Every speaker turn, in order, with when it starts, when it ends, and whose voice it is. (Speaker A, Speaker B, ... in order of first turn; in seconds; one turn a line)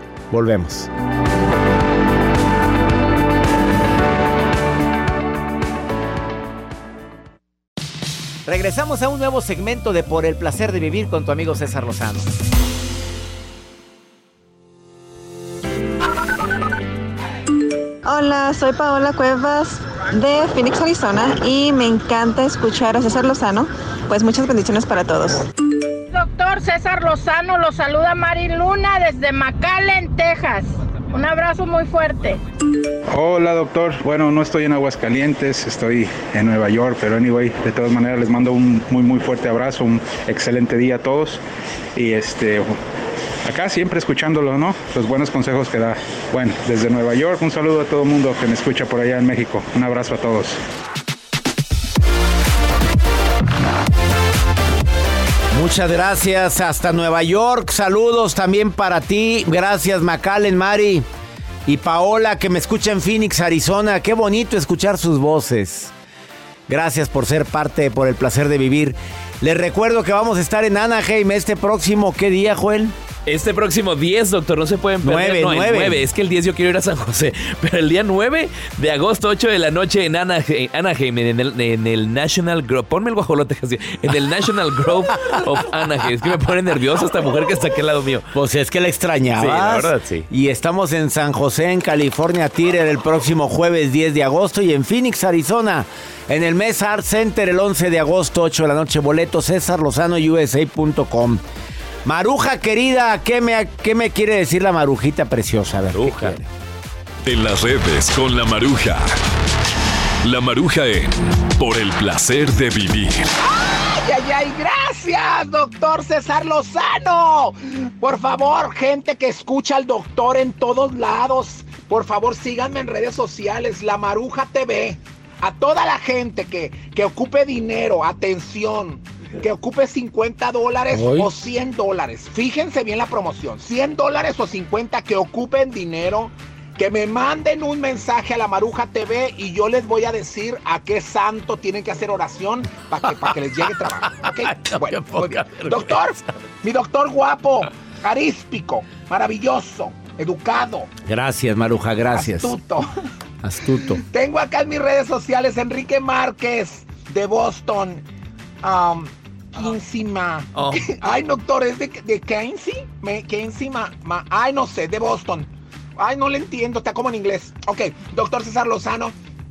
Speaker A: 0.3-0.9
Speaker A: 8.4-12.3
Speaker B: 18.0-25.5
Speaker C: 26.1-32.4
Speaker D: 33.1-41.4
Speaker D: 42.0-42.7
Speaker D: 43.4-50.6
Speaker A: 55.5-61.0
Speaker A: 61.6-65.9
Speaker A: 66.7-72.9
Speaker E: 73.2-88.3
Speaker A: 75.0-76.0
Speaker A: 88.3-101.4
Speaker E: 89.3-90.3
Speaker A: 102.0-106.4
Speaker E: 105.9-106.3
Speaker F: 107.2-109.1
Speaker F: 110.2-113.3
Speaker G: 113.4-150.9
Speaker A: 130.9-131.3
Speaker A: 144.9-145.4
Speaker A: 151.0-152.6
Speaker G: 152.1-152.9
Speaker A: 153.4-154.0
Speaker G: 154.1-158.0
Speaker G: 158.6-169.1
Speaker E: 160.5-160.9